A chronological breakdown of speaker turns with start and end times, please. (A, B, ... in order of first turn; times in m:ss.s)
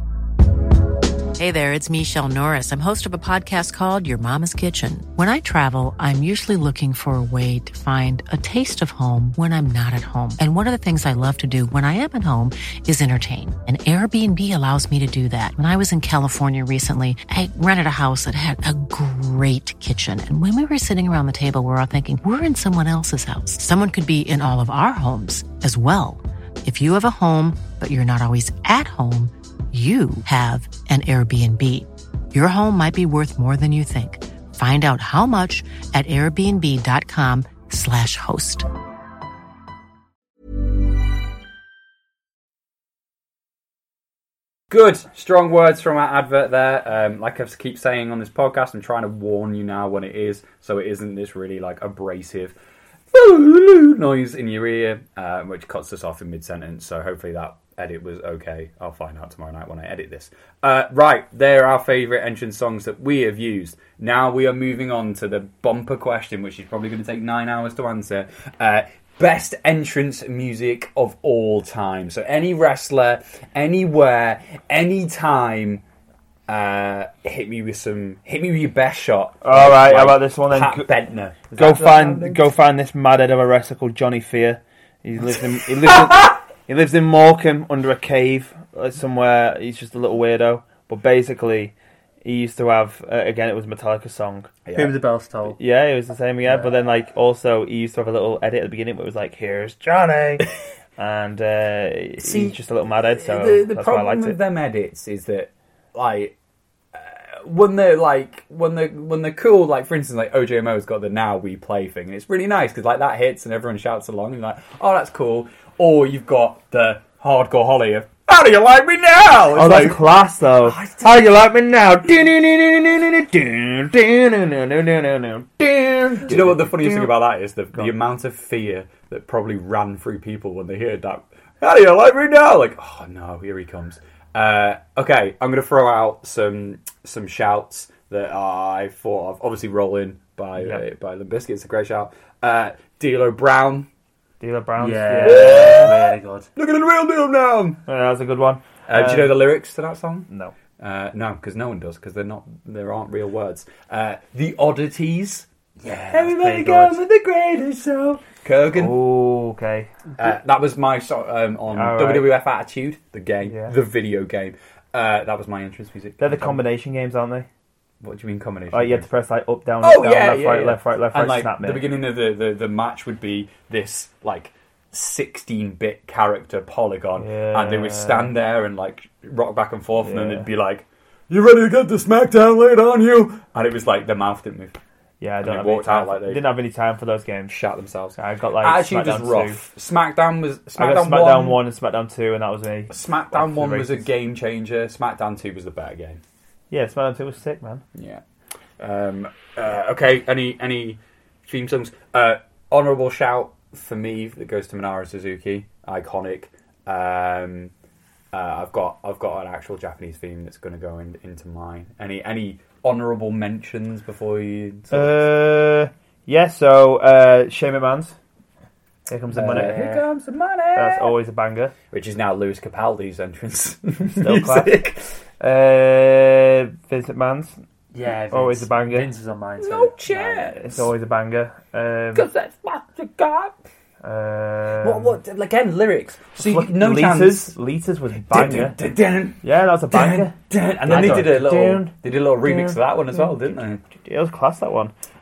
0:01.4-0:38.7 A
0:44.7-0:52.6 B
0:53.1-1:15.8 B
1:16.5-1:22.4 B
1:19.4-1:20.9 C
1:21.5-1:34.6 C
1:34.7-1:34.9 B
1:34.7-1:35.6 D
1:35.6-1:44.4 C
1:42.2-1:42.6 B
1:43.1-1:46.4 B
1:46.9-2:00.0 B
1:59.5-2:07.2 C
2:00.6-2:01.2 B
2:06.2-2:23.9 B
2:20.6-2:20.8 C
2:24.4-2:25.9 C
2:24.8-2:26.5 D
2:25.2-2:27.8 B
2:27.9-2:29.4 C
2:28.9-2:39.0 B
2:30.3-2:30.6 C
2:35.8-2:36.5 D
2:36.3-2:37.0 C
2:38.7-2:39.9 C
2:40.2-2:46.6 B
2:41.7-2:42.3 C
2:43.4-2:43.7 C
2:46.2-2:47.5 C
2:48.0-2:49.1 B
2:48.7-2:51.9 C
2:49.8-3:04.8 B
2:57.2-2:58.3 C
3:00.0-3:00.5 C
3:05.2-3:07.5 C
3:05.4-3:06.4 B
3:07.5-3:11.6 B
3:08.2-3:09.6 C
3:10.8-3:14.1 C
3:12.9-3:16.2 B
3:16.7-3:17.8 C
3:18.0-3:18.2 B
3:18.8-3:27.7 B
3:28.3-3:35.3 B
3:34.9-3:38.2 C
3:39.1-3:39.9 C
3:39.4-3:41.2 B
3:39.4-3:40.0 D
3:40.8-3:41.7 C
3:41.9-3:45.1 B
3:44.2-3:44.9 C
3:45.4-3:47.6 C
3:47.9-3:50.4 D
3:48.3-3:49.1 C
3:49.6-3:50.8 B
3:50.6-3:52.3 C
3:52.1-3:53.6 B
3:54.0-3:55.2 C
3:54.8-3:57.6 B
3:56.4-3:58.8 C
3:58.3-4:03.8 B
3:59.4-4:03.4 C
4:03.9-4:04.9 C